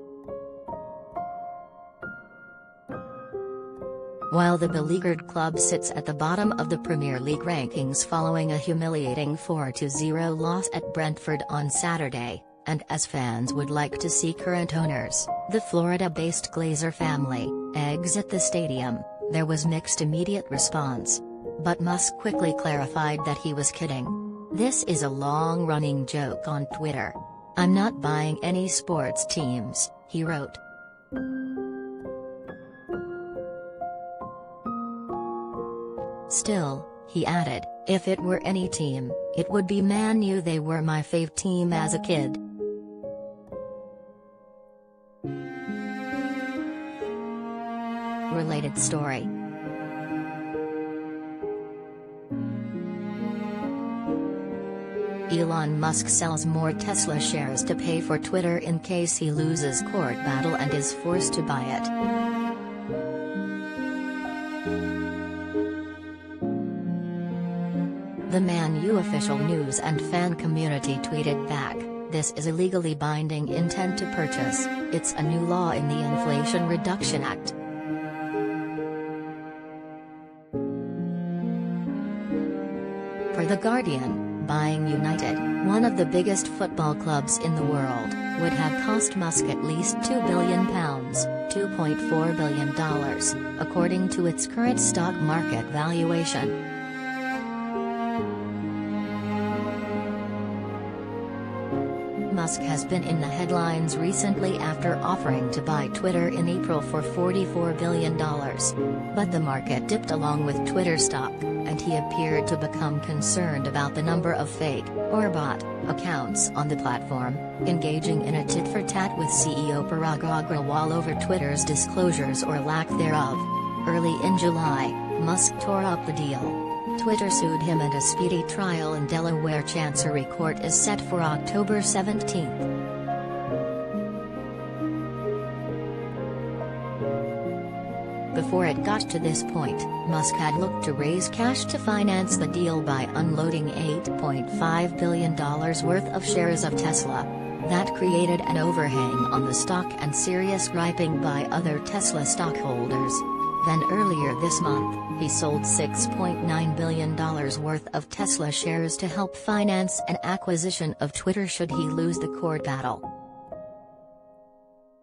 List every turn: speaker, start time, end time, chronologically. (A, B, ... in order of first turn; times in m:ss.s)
0:04.3-0:30.6 A
0:36.3-0:42.4 A
0:48.3-0:49.3 A
0:55.3-1:01.9 A
1:08.3-1:17.5 A
1:23.3-1:36.6 A
1:42.3-2:12.7 A
2:18.3-2:43.0 A